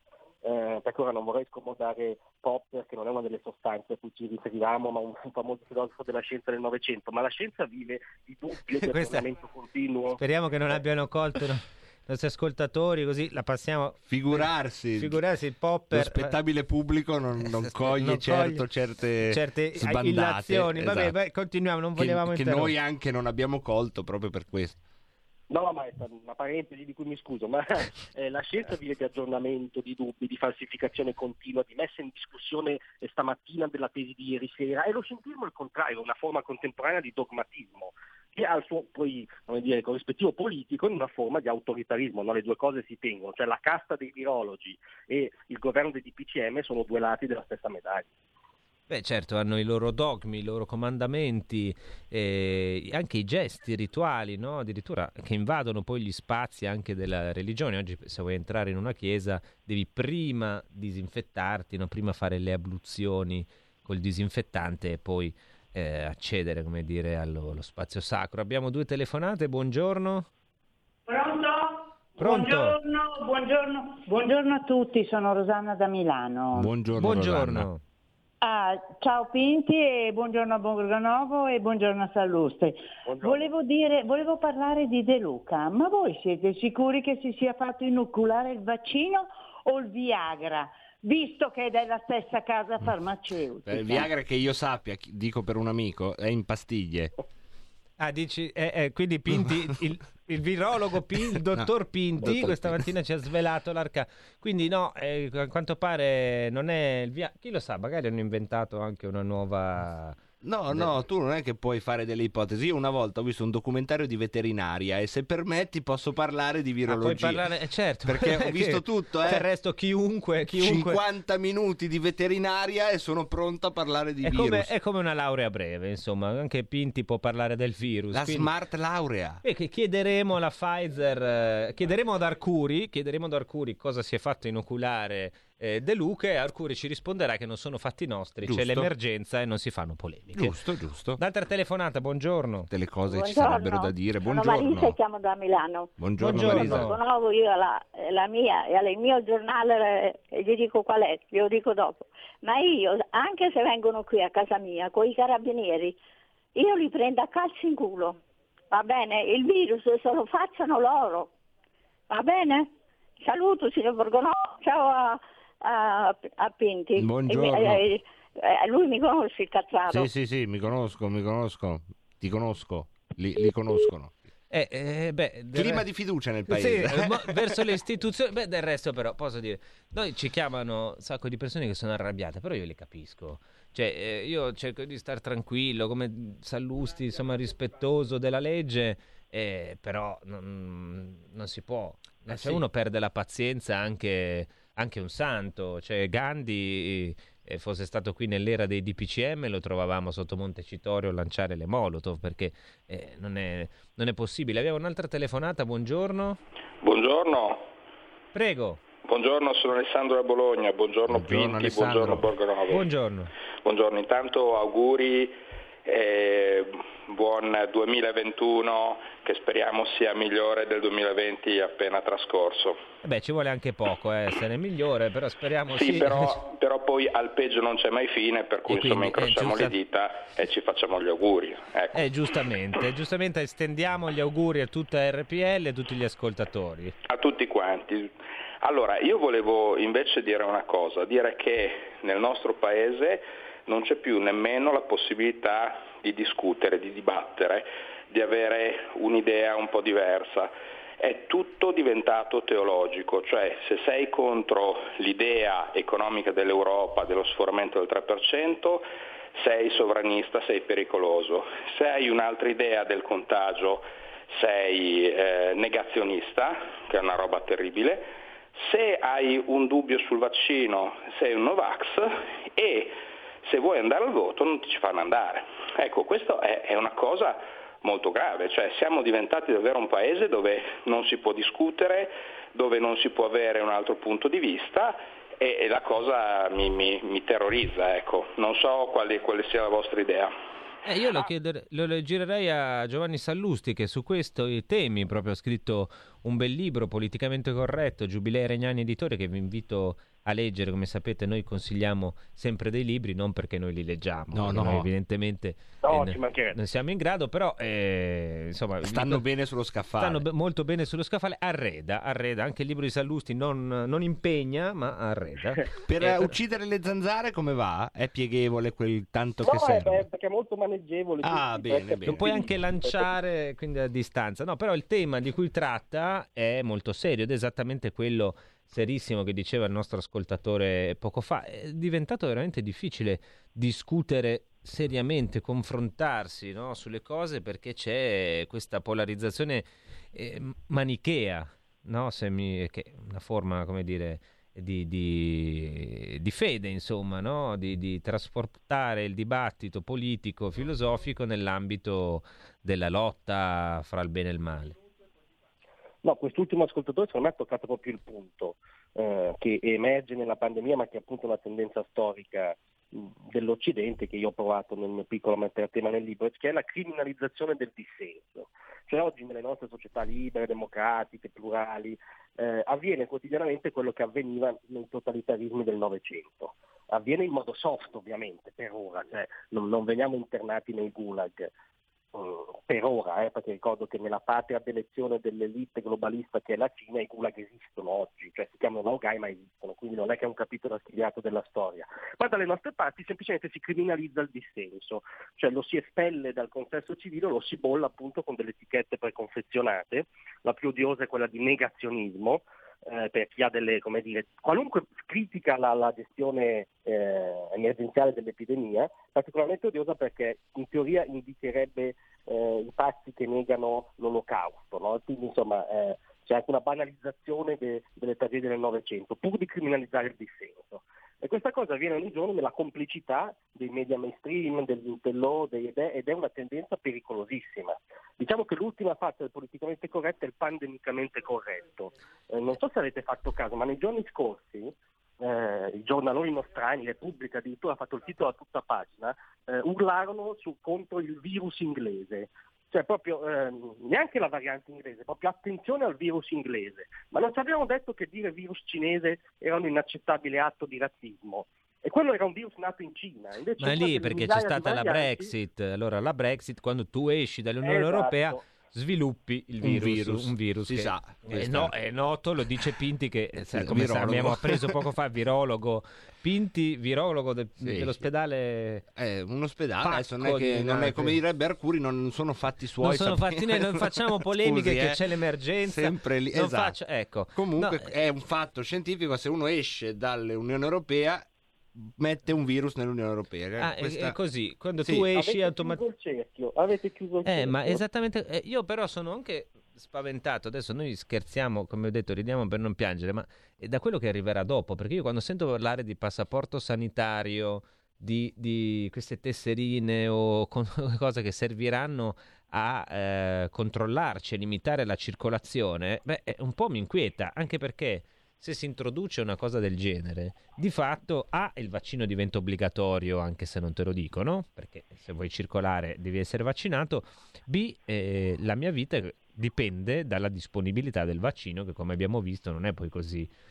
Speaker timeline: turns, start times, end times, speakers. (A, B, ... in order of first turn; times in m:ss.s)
0:00.4-0:10.2 A
0:08.8-0:09.3 B
0:10.2-0:16.4 B
0:14.1-0:15.2 C
0:15.9-0:21.1 C
0:17.6-0:18.6 B
0:19.3-0:22.7 B
0:22.0-0:24.8 C
0:25.5-0:48.1 A
0:48.9-1:10.3 B
1:11.1-1:16.7 D
1:12.2-1:12.8 B
1:16.6-1:17.7 C
1:17.0-1:17.8 B
1:18.4-1:34.1 D
1:23.1-1:23.5 A
1:33.7-1:37.1 C
1:38.0-1:50.2 B
1:42.2-1:42.9 C
1:50.4-1:57.5 C
1:56.9-2:01.0 B
1:58.0-1:59.4 C
2:00.6-2:04.7 C
2:04.2-2:08.5 B
2:08.1-2:09.4 C
2:09.4-2:20.6 B
2:18.4-2:18.9 C
2:20.4-2:21.2 C
2:21.2-2:22.7 B
2:22.7-2:25.0 C
2:23.1-2:36.0 E
2:26.0-2:27.0 C
2:26.2-2:27.0 B
2:36.6-2:38.2 E
2:38.7-2:41.3 E
2:42.1-2:50.1 E
2:47.0-2:47.8 C
2:49.9-2:54.1 C
2:54.5-2:55.9 B
2:55.5-2:57.6 C
2:56.5-3:26.4 B
3:12.3-3:12.6 C
3:26.8-3:27.7 F
3:28.3-3:28.8 B
3:29.0-3:32.9 F
3:31.1-3:32.3 C
3:32.7-3:33.3 B
3:33.6-3:42.8 F
3:43.0-3:46.4 B
3:45.7-3:52.0 F
3:48.7-3:49.8 B
3:51.9-3:57.0 B
3:57.1-4:50.4 F
4:50.9-5:09.3 B
5:04.3-5:04.9 C
5:05.8-5:06.6 A
5:08.8-5:10.2 C
5:10.0-5:16.3 B
5:15.9-5:20.1 C
5:19.4-5:23.1 A
5:21.2-5:22.4 C
5:22.1-5:54.8 B
5:56.0-6:21.5 A
6:22.1-7:35.3 A
7:33.6-7:48.9 B
7:37.6-7:38.4 A
7:39.6-7:41.8 C
7:43.5-7:44.8 C
7:47.6-7:48.0 C
7:49.0-7:55.0 C
7:49.8-7:51.2 B
7:52.8-7:57.9 B
7:55.6-7:56.8 C
7:57.3-8:04.2 C
8:03.6-8:05.8 B
8:05.1-8:07.8 A
8:07.2-8:43.3 B